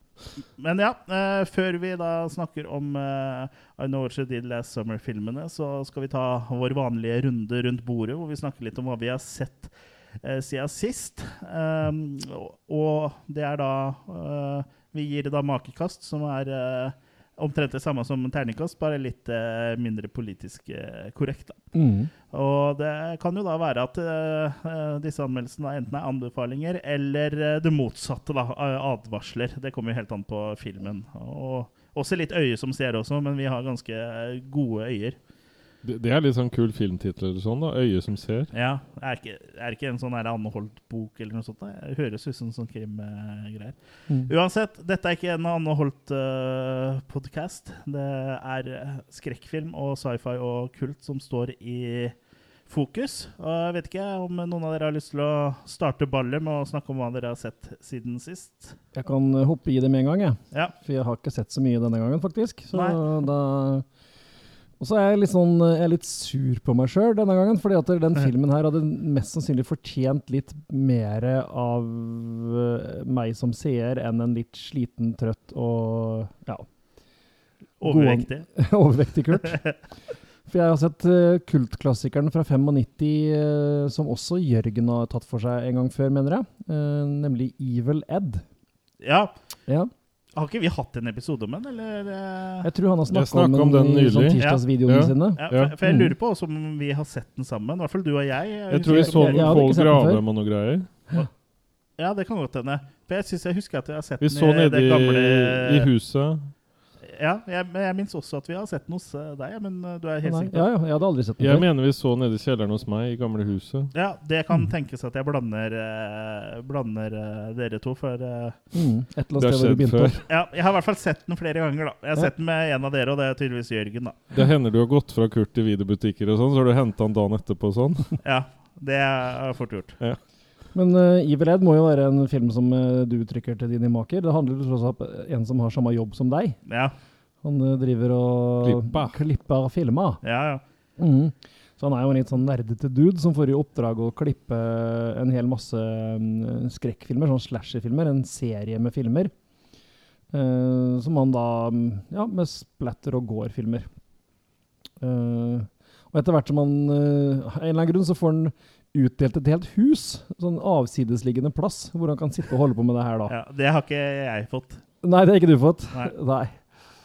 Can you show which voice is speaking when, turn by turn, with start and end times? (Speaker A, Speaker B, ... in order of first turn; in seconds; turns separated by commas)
Speaker A: 0.5-21.6, Speaker B: 21.7-22.1, Speaker A: 22.3-35.2, Speaker C: 35.8-38.5, Speaker A: 38.5-58.8, Speaker B: 58.9-63.9, Speaker A: 62.7-63.0, Speaker B: 64.8-76.7, Speaker A: 77.8-78.5, Speaker B: 77.8-79.8, Speaker B: 80.5-88.4, Speaker A: 89.0-89.4, Speaker A: 90.3-92.7, Speaker B: 92.6-96.1, Speaker C: 93.1-95.7, Speaker A: 94.4-94.6, Speaker A: 95.3-99.6, Speaker C: 98.7-100.9, Speaker B: 98.8-100.2, Speaker A: 102.0-105.9, Speaker C: 104.2-106.5, Speaker A: 107.0-110.7, Speaker B: 110.2-111.7, Speaker C: 111.4-113.9, Speaker A: 113.9-118.6, Speaker B: 118.7-120.2, Speaker C: 119.4-120.2, Speaker A: 120.3-124.2, Speaker C: 124.3-128.2, Speaker A: 128.2-130.0, Speaker B: 130.7-136.6, Speaker A: 136.7-136.9, Speaker B: 137.4-140.2, Speaker C: 138.6-139.2, Speaker A: 140.2-140.6, Speaker B: 141.0-149.3, Speaker B: 150.3-153.9, Speaker B: 155.0-163.3, Speaker A: 163.3-164.8, Speaker B: 165.0-166.6